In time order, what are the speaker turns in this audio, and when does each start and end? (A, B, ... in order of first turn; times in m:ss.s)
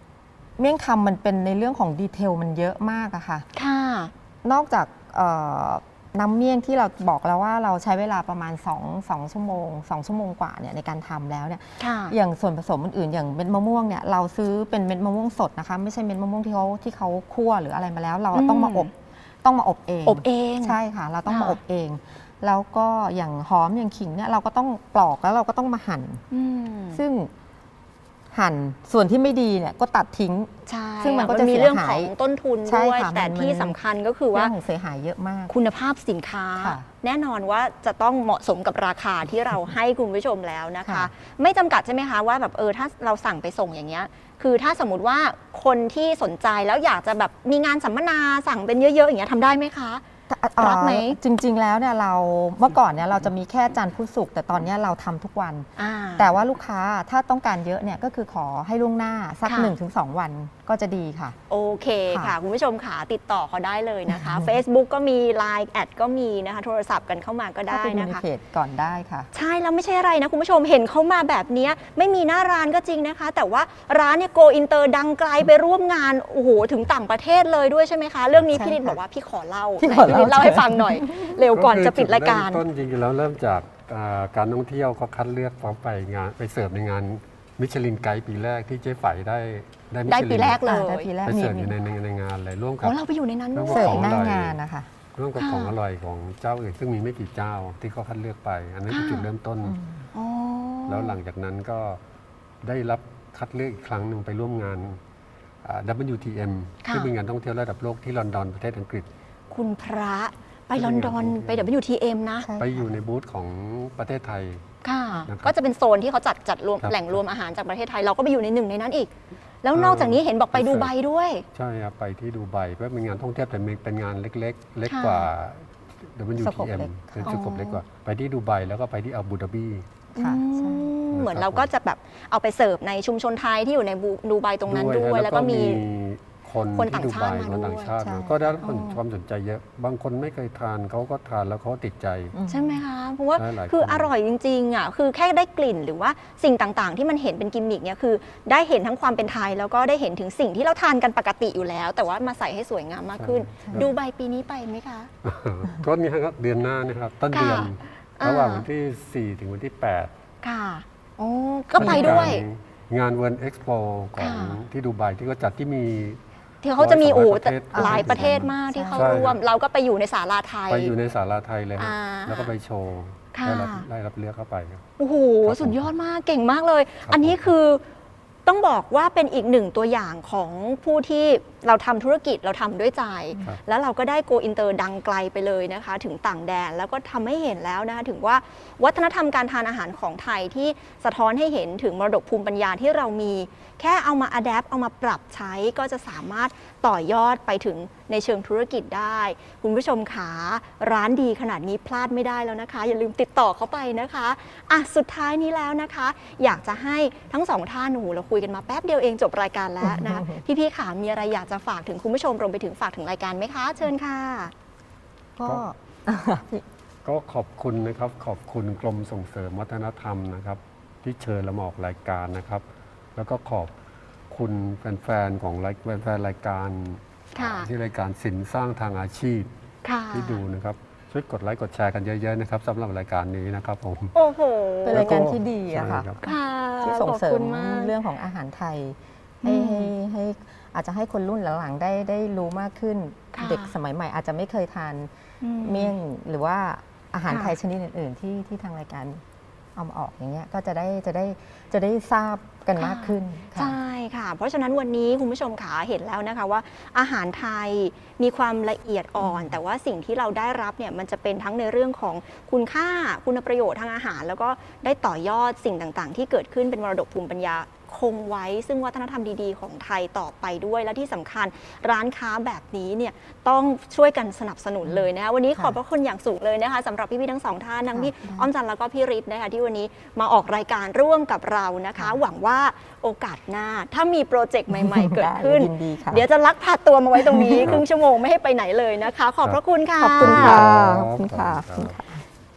0:00.6-0:03.5 A
0:03.6-0:04.1 B
0:04.4-0:18.9 A
0:11.8-0:12.2 B
0:18.3-0:18.9 B
0:19.4-0:26.2 A
0:20.1-0:21.6 B
0:26.3-0:27.0 B
0:26.9-0:27.3 A
0:28.3-0:32.1 A
0:30.7-0:34.5 B
0:32.7-0:33.8 A
0:34.3-0:35.5 A
0:35.5-0:50.0 B
0:36.6-0:36.9 A
0:50.3-1:01.4 A
0:50.6-0:51.2 B
0:55.8-0:56.4 B
0:59.4-0:59.8 B
1:01.5-1:08.2 B
1:02.1-1:02.4 A
1:04.1-1:04.6 A
1:07.7-1:09.3 A
1:09.3-1:22.6 B
1:18.5-1:19.0 A
1:19.8-1:21.4 A
1:21.5-1:33.0 C
1:30.1-1:31.1 B
1:30.6-1:31.8 A
1:32.8-1:34.1 B
1:33.5-1:34.6 C
1:33.7-1:34.9 A
1:35.2-1:39.8 C
1:35.4-1:35.8 B
1:38.9-1:39.3 B
1:39.6-1:40.0 A
1:40.1-1:41.2 B
1:40.9-1:42.0 C
1:42.6-1:45.0 C
1:45.6-1:49.1 C
1:46.8-1:47.1 B
1:49.5-1:52.5 B
1:50.8-1:51.7 C
1:52.4-1:52.9 A
1:52.6-1:54.6 C
1:54.8-1:59.1 B
1:55.3-1:55.6 C
1:56.8-1:57.2 C
1:59.6-2:01.5 B
1:59.7-2:00.9 C
2:01.5-2:09.8 C
2:04.8-2:05.3 B
2:06.4-2:07.4 A
2:07.2-2:07.8 B
2:10.2-2:15.8 B
2:10.2-2:10.9 A
2:11.1-2:11.7 C
2:14.7-2:22.4 C
2:16.8-2:17.9 B
2:18.0-2:18.6 A
2:18.6-2:19.0 B
2:22.3-2:22.8 A
2:22.5-2:35.1 B
2:23.4-2:24.1 C
2:33.2-2:33.9 C
2:35.2-2:40.1 C
2:37.3-2:38.7 B
2:40.4-2:42.4 B
2:41.8-2:42.4 A
2:41.8-2:46.2 C
2:44.2-2:44.6 B
2:46.6-2:50.9 B
2:46.8-2:49.4 C
2:47.7-2:49.3 A
2:50.7-2:54.8 C
2:51.8-2:52.5 B
2:53.3-2:53.9 B
2:55.0-2:57.8 B
2:55.4-2:55.9 C
2:57.1-2:57.5 C
2:58.5-3:34.5 B
3:29.8-3:30.4 A
3:35.4-3:36.6 A
3:37.0-3:42.6 C
3:43.2-3:43.7 C
3:44.3-3:49.5 C
3:47.4-3:47.7 B
3:49.8-3:50.4 B
3:50.1-3:54.2 C
3:54.2-3:55.3 B
3:54.9-4:09.2 A
3:54.9-3:56.2 C
3:56.2-3:57.9 B
3:59.4-3:59.9 B
4:03.3-4:03.8 B
4:05.4-4:05.9 B
4:07.3-4:07.6 B
4:09.8-4:13.8 A
4:12.8-4:50.6 B
4:19.2-4:19.5 A
4:37.9-4:38.5 A
4:44.7-4:46.3 A
4:47.2-4:47.7 A
4:50.0-4:52.2 A
4:50.2-4:52.0 C